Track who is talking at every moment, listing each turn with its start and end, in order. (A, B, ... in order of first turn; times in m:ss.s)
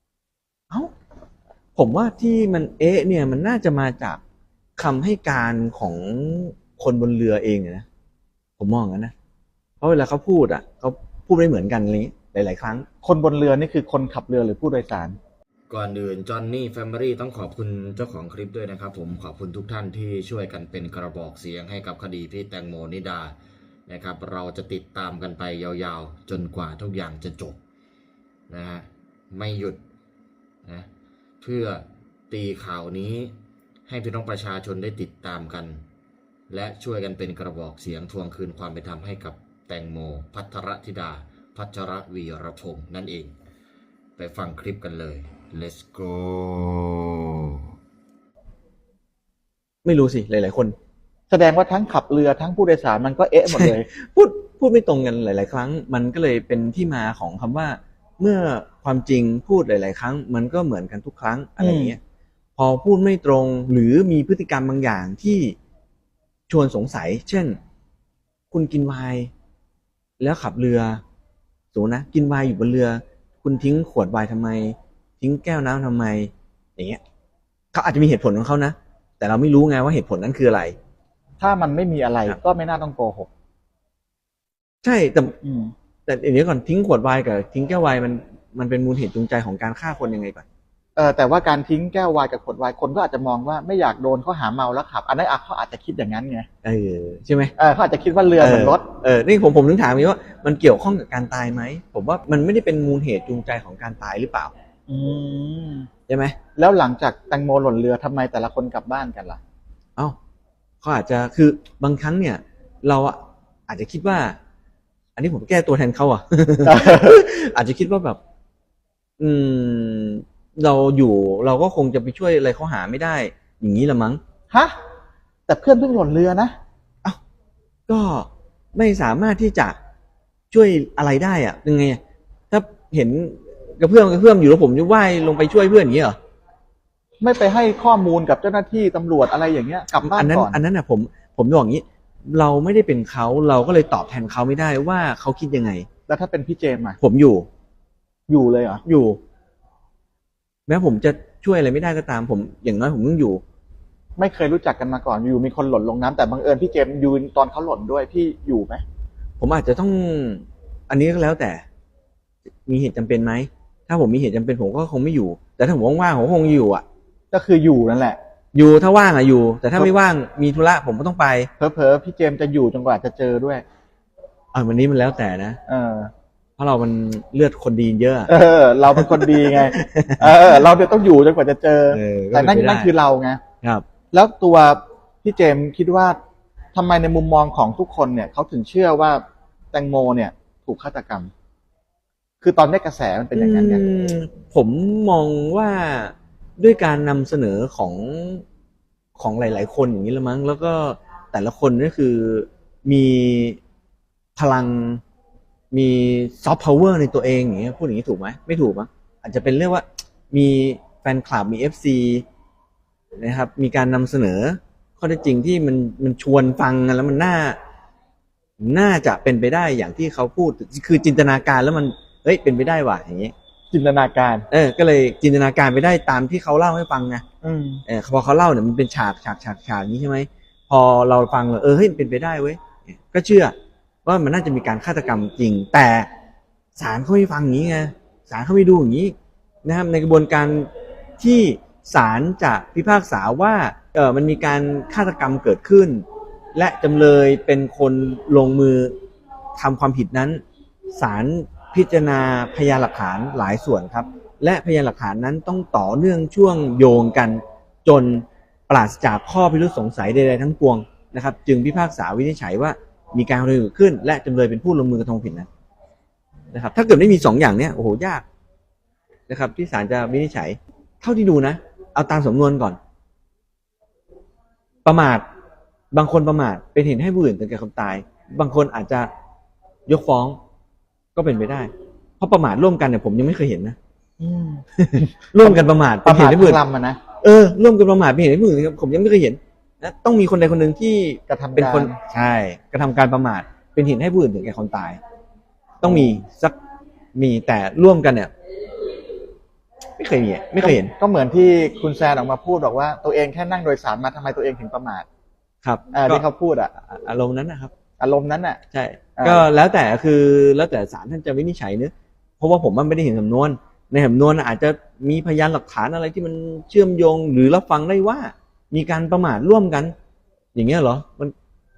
0:01.8-0:04.2 A
0:04.8-0:07.8 A
0:08.6-0:09.1 A
0:09.8-0:12.8 A
0:13.0-0:15.2 B
0:15.7-0:23.3 C
0:23.9-0:27.6 C
0:28.5-0:29.8 C
0:31.4-0:33.3 C
0:33.9-0:35.8 C
0:36.5-0:43.3 C
0:44.2-0:47.6 C
0:49.8-0:50.7 A
0:51.3-0:53.9 B
0:53.5-1:02.0 A
1:01.6-1:01.9 B
1:02.6-1:05.6 A
1:06.5-1:07.6 A
1:08.5-1:09.3 A
1:10.2-1:11.0 A
1:11.7-1:17.0 A
1:17.7-1:20.8 A
1:21.4-1:23.3 B
1:24.8-1:25.4 A
1:25.4-1:25.7 B
1:26.0-1:30.4 A
1:31.0-1:36.5 B
1:36.6-1:37.5 A
1:37.6-1:38.8 B
1:38.4-1:44.5 A
1:44.9-1:45.9 B
1:46.1-1:46.4 A
1:46.6-1:49.4 B
1:50.8-1:54.4 A
1:55.2-1:58.2 A
1:56.6-1:57.2 B
1:59.2-2:04.2 A
2:04.5-2:04.8 B
2:05.5-2:06.5 B
2:07.9-2:09.8 A
2:10.5-2:12.0 A
2:12.5-2:16.2 A
2:17.2-2:20.6 B
2:20.0-2:25.9 A
2:26.1-2:27.0 B
2:27.0-2:27.5 A
2:28.3-2:28.8 B
2:28.8-2:29.2 A
2:30.7-2:33.4 A
2:34.2-2:38.8 B
2:39.4-2:41.6 A
2:42.6-2:46.8 A
2:47.3-2:48.2 B
2:48.5-2:51.5 A
2:51.6-2:53.6 B
2:54.5-2:55.6 A
2:55.7-2:56.1 B
2:56.6-2:58.3 A
2:58.3-3:03.4 B
2:58.9-3:00.6 A
3:01.9-3:02.9 A
3:04.1-3:06.2 B
3:06.7-3:11.3 B
3:12.4-3:13.8 B
3:13.3-3:18.4 A
3:19.2-3:23.6 A
3:24.4-3:25.0 A
3:25.7-3:32.2 A
3:33.2-3:37.6 A
3:38.6-3:43.3 A
3:43.7-3:44.5 B
3:44.5-3:47.2 A
3:47.4-3:47.8 B
3:47.8-3:53.5 A
3:54.0-3:56.1 A
3:56.8-4:08.9 A
4:09.6-4:10.4 A
4:10.9-4:25.5 A
4:26.5-4:28.2 A
4:29.3-4:32.8 A
4:34.8-4:35.2 A
4:35.9-4:39.1 A
4:39.9-4:40.4 A
4:41.1-4:43.8 A
4:44.2-4:47.0 B
4:44.8-4:46.6 A
4:47.2-4:55.0 A
4:51.3-4:52.0 B
4:55.8-4:56.5 A
4:55.8-4:56.1 B
4:57.1-4:58.3 A
5:00.0-5:00.9 A
5:00.6-5:05.0 B
5:05.6-5:06.2 A
5:05.9-5:06.7 B
5:06.8-5:07.7 A
5:08.0-5:08.6 B
5:08.7-5:19.9 A
5:09.2-5:09.5 B
5:20.5-5:21.3 A